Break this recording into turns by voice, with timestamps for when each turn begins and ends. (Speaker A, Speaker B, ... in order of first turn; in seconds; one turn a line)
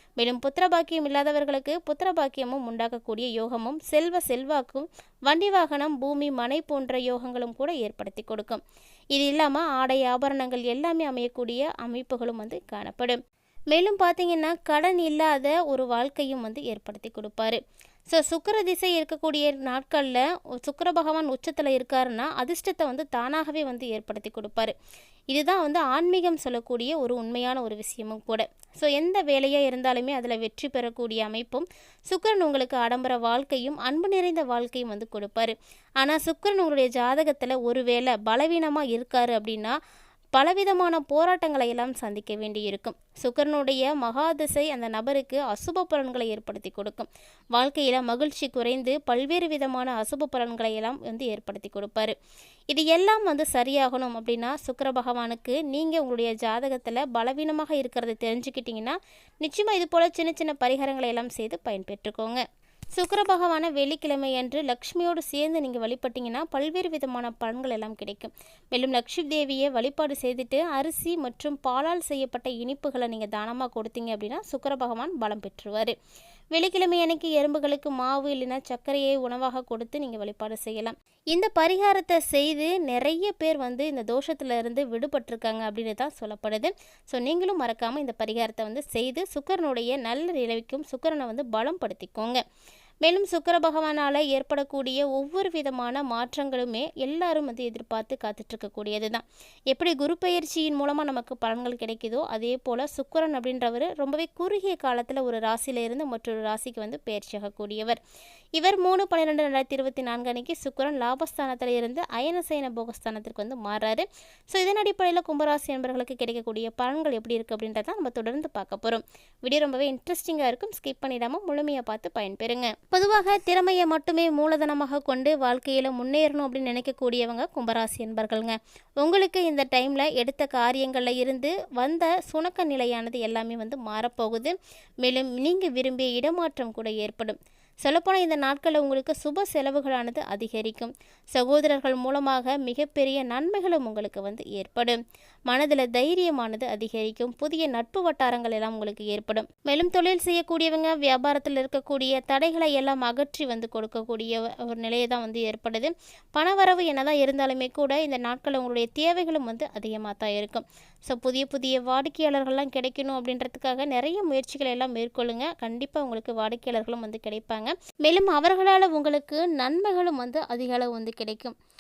Speaker A: 0.2-8.6
Speaker A: 9.1-13.2
Speaker A: 13.7-17.6
Speaker A: 18.1-24.7
Speaker A: 25.3-39.8
Speaker A: 40.4-52.1
Speaker A: 52.7-62.4
Speaker A: 63.0-76.0
Speaker A: 76.5-92.4
Speaker A: 93.0-108.0
Speaker A: 108.6-171.5